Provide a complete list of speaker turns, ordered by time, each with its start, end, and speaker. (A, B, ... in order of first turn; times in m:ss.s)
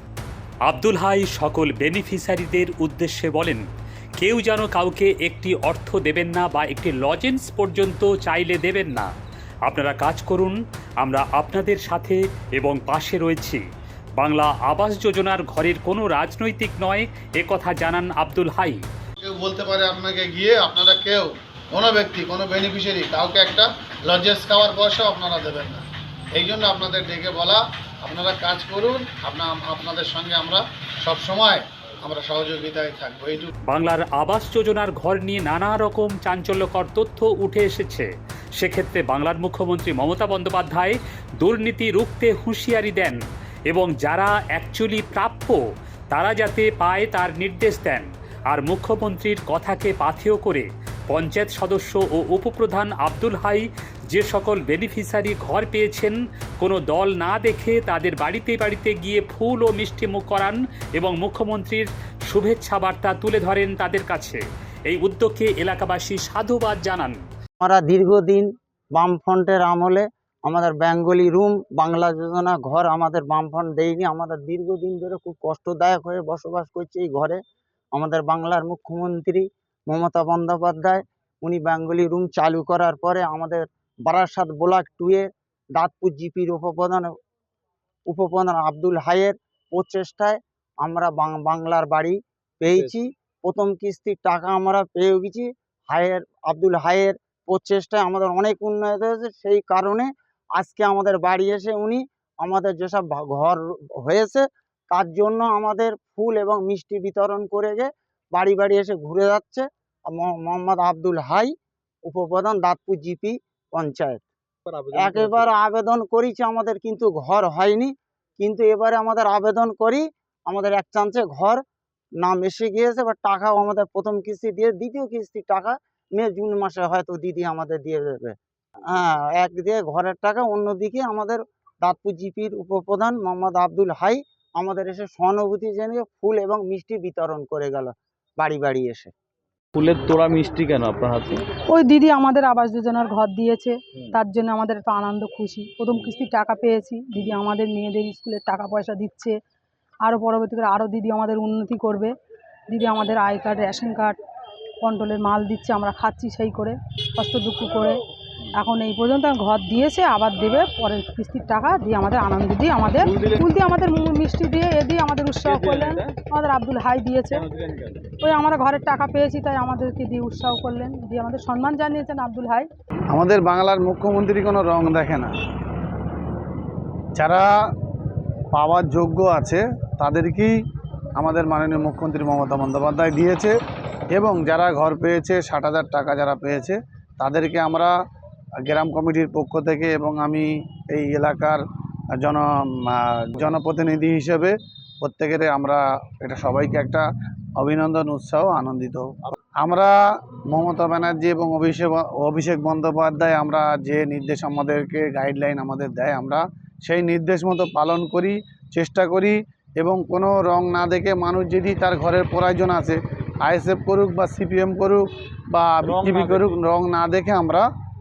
0:00.6-0:03.6 A
0:04.2-0:09.1 A
0:09.6-0:13.6 A
0:14.2-0:18.8 A
0:19.2-0:25.8 B
0:26.3-0:33.5 B
0:33.7-0:45.6 A
0:46.1-1:07.2 A
1:07.6-1:17.4 C
1:17.9-1:27.1 C
1:28.1-1:51.5 C
1:52.0-1:54.2 C
1:54.7-1:55.5 D
1:54.9-2:01.6 C
2:02.2-2:08.3 C
2:08.9-2:19.1 C
2:19.7-2:21.4 D
2:21.7-2:29.3 E
2:30.0-2:32.1 E
2:32.7-2:34.2 E
2:34.8-2:38.0 E
2:38.5-2:47.4 E
2:43.0-2:43.5 D
2:45.4-2:46.1 D
2:47.3-2:48.1 D
2:48.2-2:52.7 E
2:53.1-2:55.3 B
2:57.2-2:57.4 B
2:58.5-3:00.5 B
3:01.2-3:03.5 B
3:04.1-3:07.9 B
3:08.6-3:11.6 B
3:12.2-3:17.0 B
3:17.6-3:19.9 B
3:20.5-3:37.6 B
3:35.8-3:36.6 D